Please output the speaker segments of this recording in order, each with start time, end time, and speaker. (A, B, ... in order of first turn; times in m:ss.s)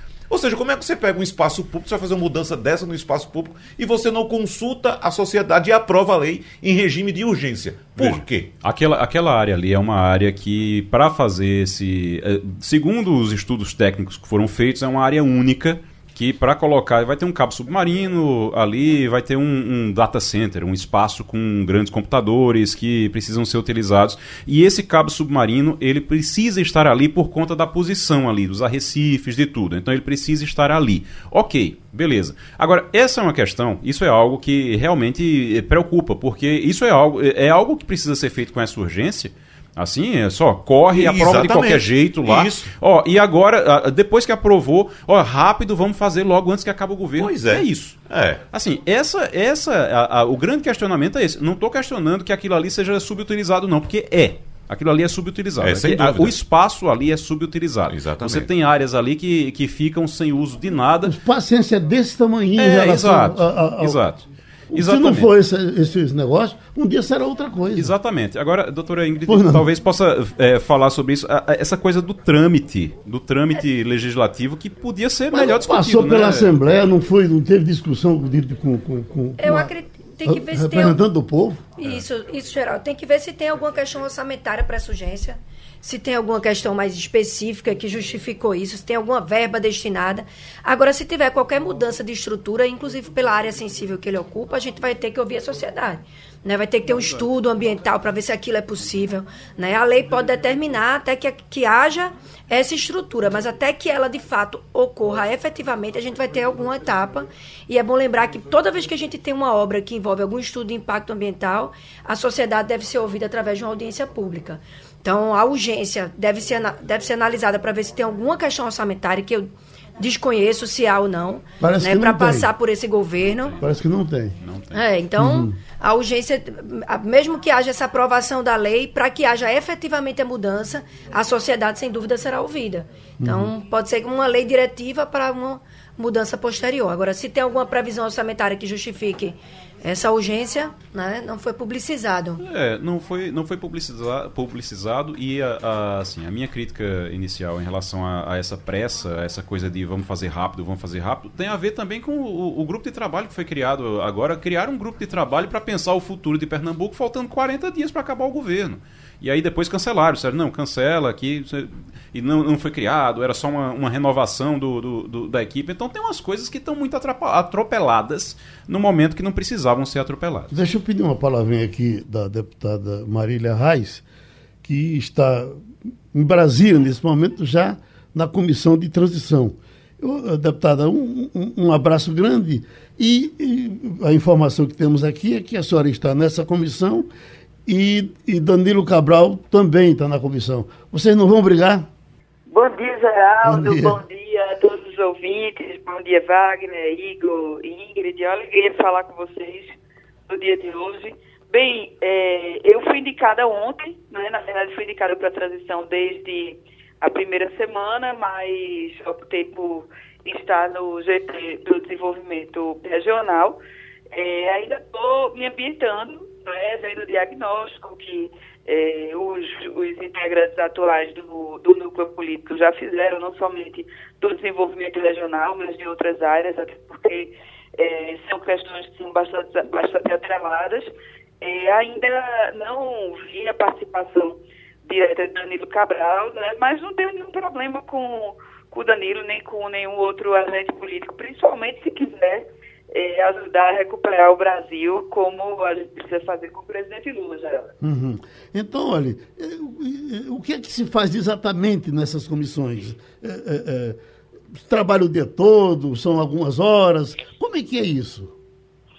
0:00.3-0:08.5 A
0:08.0-1:01.2 B
0:40.9-0:42.7 A
0:47.2-0:48.4 A
0:55.6-0:56.3 A
0:57.9-0:58.5 A
1:01.0-1:04.0 C
1:02.6-1:05.3 B
1:04.7-1:08.0 C
1:07.8-1:16.5 B
1:09.3-1:09.7 C
1:15.3-1:19.7 C
1:19.4-1:21.0 D
1:20.2-1:21.7 C
1:21.8-2:03.6 D
2:01.6-2:02.5 C
2:03.4-2:03.7 B
2:03.6-2:04.4 C
2:04.4-2:04.8 B
2:04.7-2:22.4 D
2:05.2-2:05.6 C
2:13.2-2:13.5 C
2:22.4-2:50.6 B
2:50.5-2:54.0 C
2:54.6-3:07.1 C
3:07.7-3:11.9 C
3:12.5-3:19.8 E
3:13.4-3:14.0 C
3:20.3-3:33.6 E
3:34.1-3:50.9 E
3:51.4-4:07.7 E
4:07.8-4:14.0 C
4:14.5-4:18.3 C